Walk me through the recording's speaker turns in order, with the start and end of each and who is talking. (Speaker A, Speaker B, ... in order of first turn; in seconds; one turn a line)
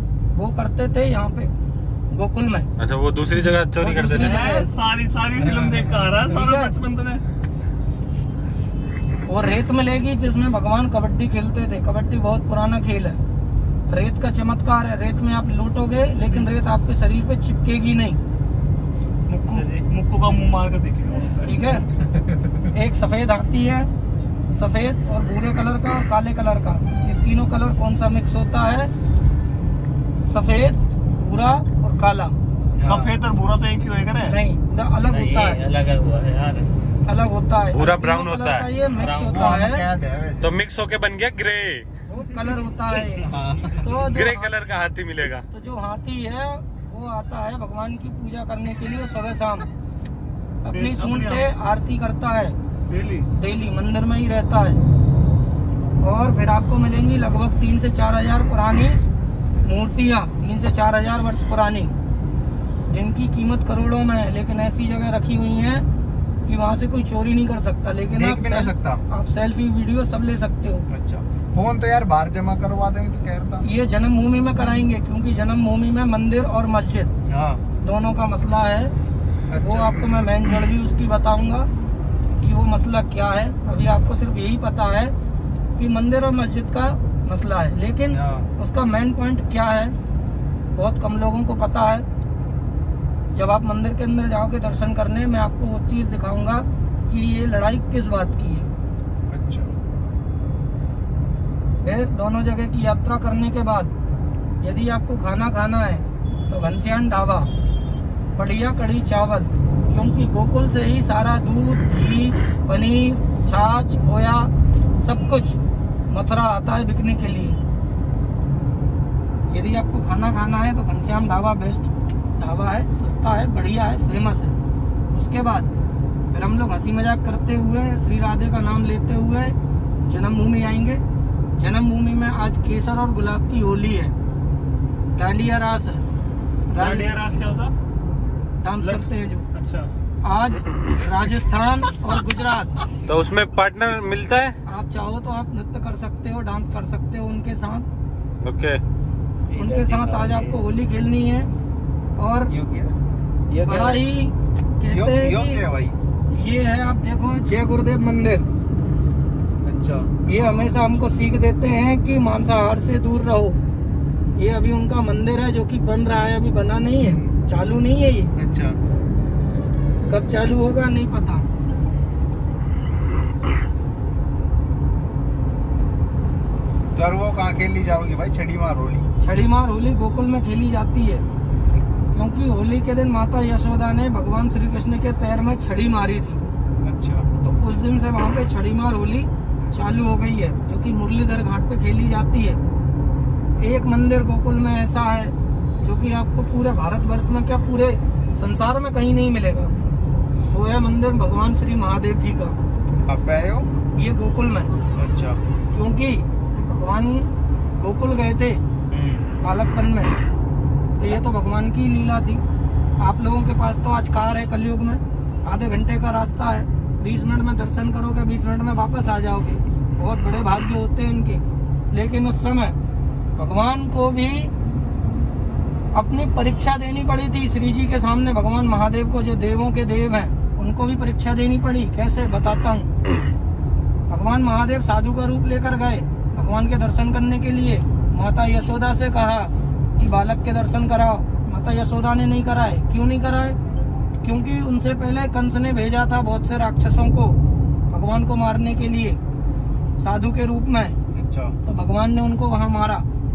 Speaker A: 0.3-1.5
Speaker A: 2.1-2.7
Speaker B: 2.8-4.5
Speaker A: 3.3-4.7
Speaker C: 4.4-7.2
Speaker A: 6.2-6.7
Speaker A: 9.3-13.2
Speaker A: 13.9-18.2
Speaker C: 19.3-21.6
Speaker D: 19.5-19.9
Speaker A: 21.4-21.9
Speaker A: 22.7-23.9
Speaker A: 24.5-28.9
Speaker A: 30.2-32.3
Speaker E: 32.8-33.1
Speaker C: 32.8-34.3
Speaker A: 34.3-35.6
Speaker D: 35.1-36.7
Speaker B: 36.0-36.5
Speaker A: 37.0-39.9
Speaker B: 37.7-39.4
Speaker E: 39.1-40.5
Speaker B: 40.4-41.9
Speaker A: 42.1-43.3
Speaker E: 43.2-43.7
Speaker A: 43.8-44.5
Speaker B: 44.0-45.4
Speaker A: 45.5-49.7
Speaker A: 50.6-52.6
Speaker C: 50.7-51.4
Speaker C: 52.9-53.3
Speaker A: 53.3-54.8
Speaker A: 56.0-59.0
Speaker A: 59.6-61.9
Speaker A: 62.9-65.8
Speaker A: 66.5-70.8
Speaker E: 68.1-69.0
Speaker E: 70.9-73.7
Speaker A: 73.6-77.1
Speaker E: 77.3-77.6
Speaker A: 77.8-78.9
Speaker E: 79.5-80.0
Speaker A: 79.6-81.7
Speaker A: 82.4-85.1
Speaker A: 85.8-90.0
Speaker E: 88.1-88.5
Speaker A: 90.7-92.0
Speaker A: 93.3-98.7
Speaker E: 99.3-99.7
Speaker A: 101.8-103.9
Speaker A: 104.6-107.5
Speaker A: 108.3-117.6
Speaker A: 119.5-124.5
Speaker A: 125.1-125.7
Speaker A: 126.3-129.5
Speaker A: 130.1-131.0
Speaker A: 131.6-134.1
Speaker A: 135.1-136.0
Speaker A: 136.7-137.2
Speaker C: 136.8-137.7
Speaker A: 138.6-139.5
Speaker C: 138.8-139.9
Speaker A: 140.2-142.7
Speaker B: 143.1-144.5
Speaker A: 144.7-147.9
Speaker B: 148.4-148.8
Speaker D: 149.5-150.6
Speaker A: 149.5-151.5
Speaker A: 152.2-152.5
Speaker E: 152.5-152.9
Speaker D: 153.5-154.0
Speaker A: 153.6-155.6
Speaker E: 154.9-155.9
Speaker A: 156.3-158.5
Speaker E: 159.6-160.1
Speaker A: 160.2-163.6
Speaker A: 164.3-168.3
Speaker E: 167.0-167.4
Speaker E: 168.4-168.8
Speaker A: 170.0-171.5
Speaker E: 176.9-179.1
Speaker A: 179.2-181.2
Speaker A: 182.1-186.4
Speaker E: 186.8-187.3
Speaker A: 187.4-192.6
Speaker A: 193.6-199.7
Speaker A: 200.5-202.5
Speaker E: 203.1-203.7
Speaker A: 203.9-204.7
Speaker E: 204.9-205.4
Speaker A: 205.7-207.3
Speaker A: 207.8-208.6
Speaker E: 208.9-209.3
Speaker A: 209.4-210.1
Speaker A: 211.0-212.4
Speaker A: 213.0-222.8
Speaker A: 223.4-224.5
Speaker A: 225.9-232.9
Speaker A: 234.1-243.6
Speaker A: 244.2-247.4
Speaker A: 247.9-249.2
Speaker A: 250.0-251.0
Speaker E: 251.1-251.5
Speaker A: 251.6-253.0